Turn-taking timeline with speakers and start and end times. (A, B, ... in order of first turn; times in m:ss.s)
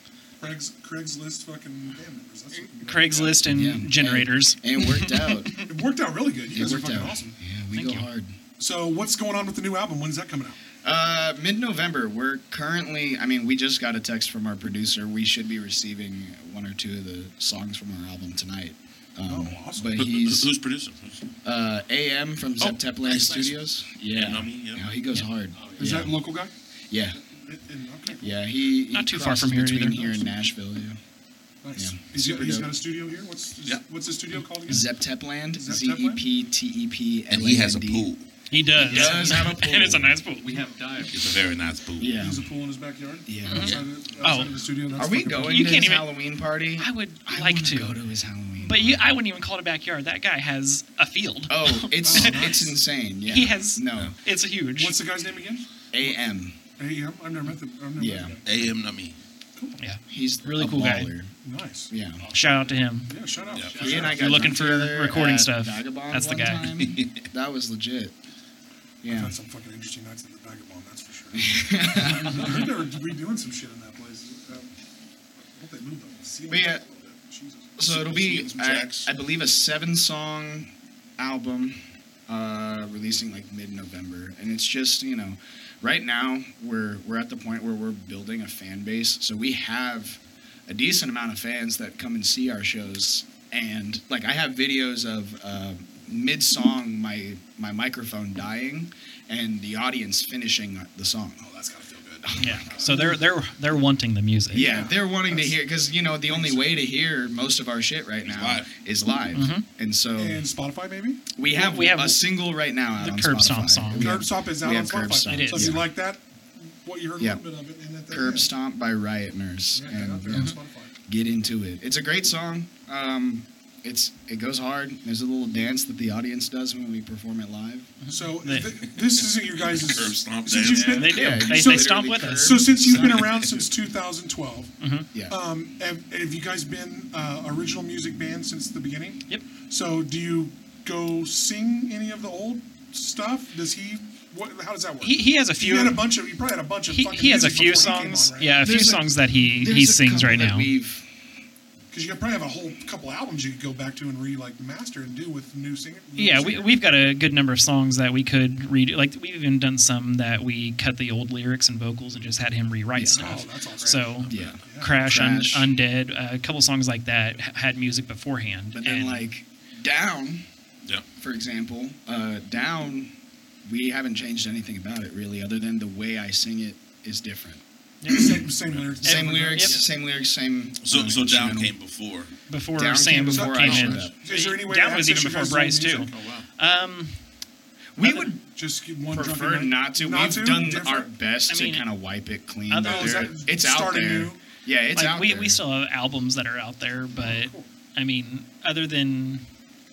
0:00.4-0:03.6 A
0:02.8-0:05.6 B
0:03.5-0:05.5 C
0:05.7-0:07.3 A
0:06.5-0:08.4 C
0:07.7-0:08.1 B
0:08.6-0:10.6 A
0:10.8-0:20.5 C
0:19.3-0:20.0 A
0:20.0-0:21.2 D
0:21.4-0:26.2 C
0:23.0-0:24.8 D
0:25.6-0:26.0 E
0:25.8-0:26.5 A
0:26.9-0:27.2 C
0:27.2-0:28.4 A
0:28.2-0:31.0 C
0:28.9-0:30.3 B
0:31.6-0:34.9 A
0:31.8-0:32.7 C
0:34.7-0:38.1 C
0:35.5-0:36.2 A
0:37.3-0:38.2 D
0:38.5-0:40.5 B
0:38.8-0:40.2 C
0:40.4-0:41.5 E
0:41.1-0:42.2 D
0:42.0-0:42.5 C
0:42.2-0:45.6 A
0:43.3-0:43.8 C
0:43.5-0:44.5 B
0:44.9-0:49.1 C
0:45.4-0:46.1 B
0:46.8-0:48.0 B
0:48.6-0:52.5 B
0:51.5-0:54.1 C
0:52.0-0:52.7 A
0:53.3-0:55.0 B
0:54.8-0:56.2 A
0:55.9-0:56.6 C
0:56.8-0:58.7 A
0:58.0-0:58.4 C
0:58.4-0:59.2 D
0:59.8-1:01.1 B
1:00.1-1:01.3 C
1:01.4-1:01.9 A
1:01.9-1:02.2 C
1:02.2-1:04.2 E
1:02.3-1:03.1 B
1:03.1-1:04.4 A
1:03.8-1:08.2 C
1:03.9-1:06.7 B
1:06.8-1:07.2 D
1:09.0-1:09.3 C
1:09.1-1:14.7 A
1:11.3-1:12.7 C
1:15.6-1:17.7 A
1:16.5-1:16.8 C
1:17.8-1:41.5 C
1:17.8-1:19.1 D
1:41.4-1:43.2 A
1:42.2-1:42.8 C
1:42.4-1:44.7 B
1:44.5-1:50.4 C
1:44.5-1:45.7 A
1:46.2-1:46.8 A
1:48.2-1:48.7 D
1:49.3-1:49.6 B
1:50.2-1:51.2 A
1:51.4-1:55.9 C
1:51.5-1:52.2 B
1:53.0-1:54.1 B
1:54.0-1:58.5 A
1:55.3-1:55.8 B
1:58.1-2:00.5 C
1:59.7-2:01.0 A
2:00.3-2:00.6 B
2:01.1-2:07.9 C
2:08.0-2:08.7 B
2:08.1-2:14.7 A
2:08.9-2:11.2 D
2:10.9-2:12.8 B
2:11.0-2:13.7 C
2:13.0-2:13.3 D
2:14.8-2:15.1 B
2:15.3-2:28.6 A
2:25.0-2:26.1 B
2:26.9-2:30.7 B
2:28.6-2:31.1 C
2:31.9-2:36.8 A
2:36.2-2:49.3 B
2:43.0-2:43.3 C
2:43.1-2:45.0 A
2:44.3-2:45.7 C
2:48.7-2:50.4 C
2:51.2-2:53.1 C
2:53.7-2:58.3 C
2:58.0-2:58.3 B
2:58.1-2:59.8 A
2:59.0-3:01.7 C
2:59.0-2:59.8 B
3:00.8-3:02.3 D
3:02.5-3:07.2 B
3:02.8-3:04.2 C
3:03.3-3:06.2 A
3:06.1-3:06.5 D
3:08.0-3:08.4 C
3:08.0-3:11.1 A
3:09.1-3:15.6 C
3:11.5-3:11.8 B
3:12.7-3:13.3 B
3:12.8-3:14.4 A
3:14.9-3:19.4 B
3:17.2-3:17.7 A